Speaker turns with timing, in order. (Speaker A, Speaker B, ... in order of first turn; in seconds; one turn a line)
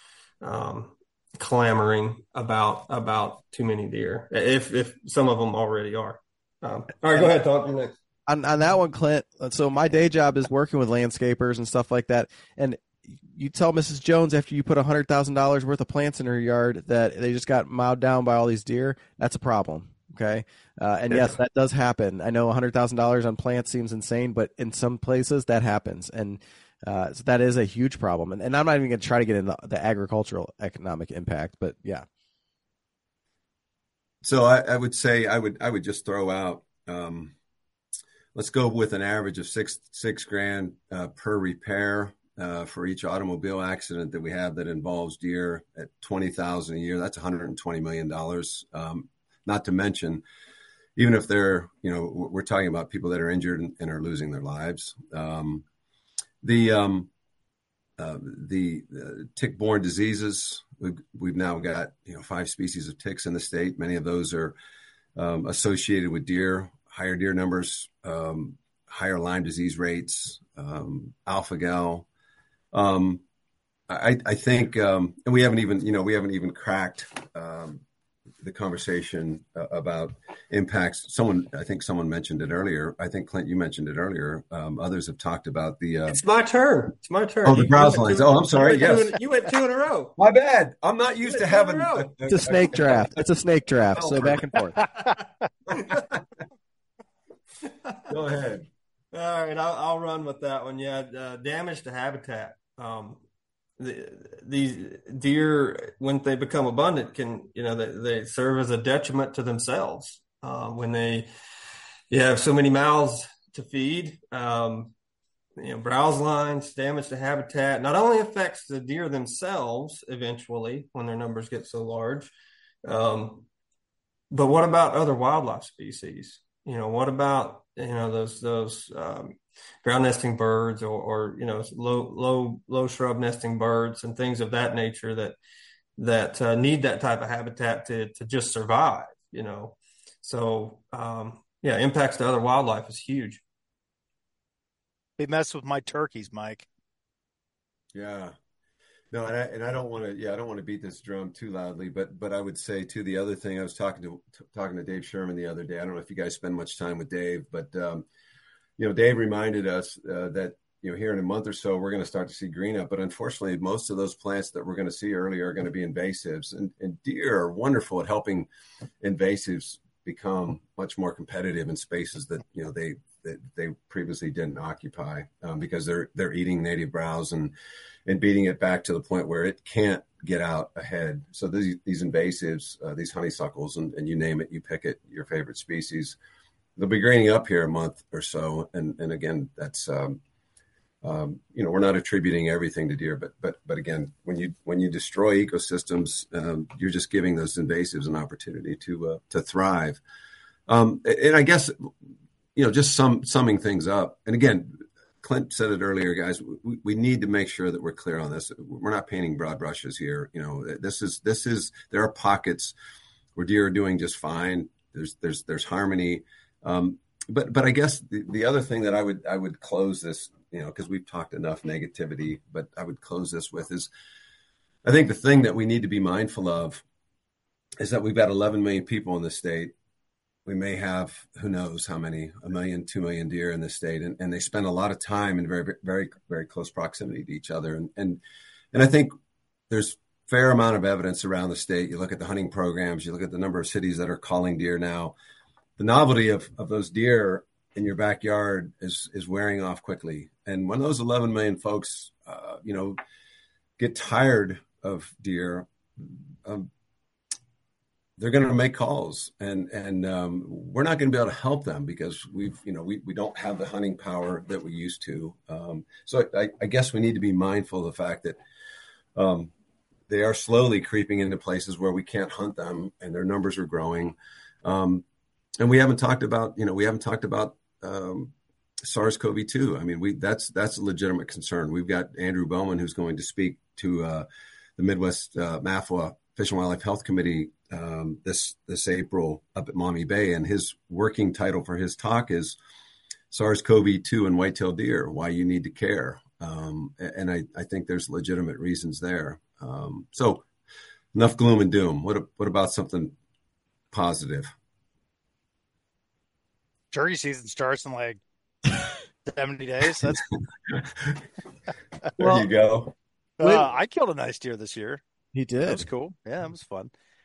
Speaker A: 0.4-8.0
Speaker B: 8.3-32.0
Speaker C: 34.2-37.3
Speaker C: 38.3-50.2
Speaker C: 51.0-55.6
Speaker C: 56.4-57.1
Speaker C: 58.0-64.5
Speaker C: 65.2-72.0
Speaker C: 72.7-73.2
Speaker C: 73.9-77.8
Speaker C: 78.4-86.2
Speaker A: 86.0-90.2
Speaker C: 87.4-89.2
Speaker C: 90.2-93.2
Speaker A: 91.2-92.1
Speaker B: 92.3-94.8
Speaker C: 94.0-94.5
Speaker A: 95.7-96.0
Speaker C: 98.1-98.7
Speaker A: 99.1-103.2
Speaker A: 103.8-111.3
Speaker A: 112.1-114.9
Speaker A: 115.6-122.3
Speaker A: 122.8-123.5
Speaker A: 124.3-135.4
Speaker A: 136.0-143.4
Speaker D: 145.2-146.7
Speaker C: 147.9-148.3
Speaker C: 149.1-158.0
Speaker C: 158.8-168.5
Speaker C: 169.0-177.5
Speaker C: 178.1-186.2
Speaker C: 186.8-190.2
Speaker C: 191.0-200.0
Speaker C: 200.7-201.9
Speaker C: 202.6-212.7
Speaker C: 213.3-223.9
Speaker C: 224.8-226.8
Speaker C: 227.8-229.7
Speaker C: 230.4-238.2
Speaker C: 238.7-239.1
Speaker C: 239.7-245.1
Speaker C: 245.8-253.0
Speaker C: 253.8-256.7
Speaker C: 258.2-268.4
Speaker C: 269.1-269.5
Speaker C: 270.1-275.0
Speaker C: 275.6-278.3
Speaker C: 278.9-292.6
Speaker C: 293.3-300.4
Speaker C: 301.1-303.1
Speaker C: 303.9-304.5
Speaker D: 306.9-308.2
Speaker D: 309.2-310.2
Speaker C: 310.7-311.2
Speaker C: 312.2-312.9
Speaker B: 312.2-312.5
Speaker D: 313.4-315.0
Speaker B: 313.4-313.7
Speaker B: 315.3-315.8
Speaker D: 315.6-316.9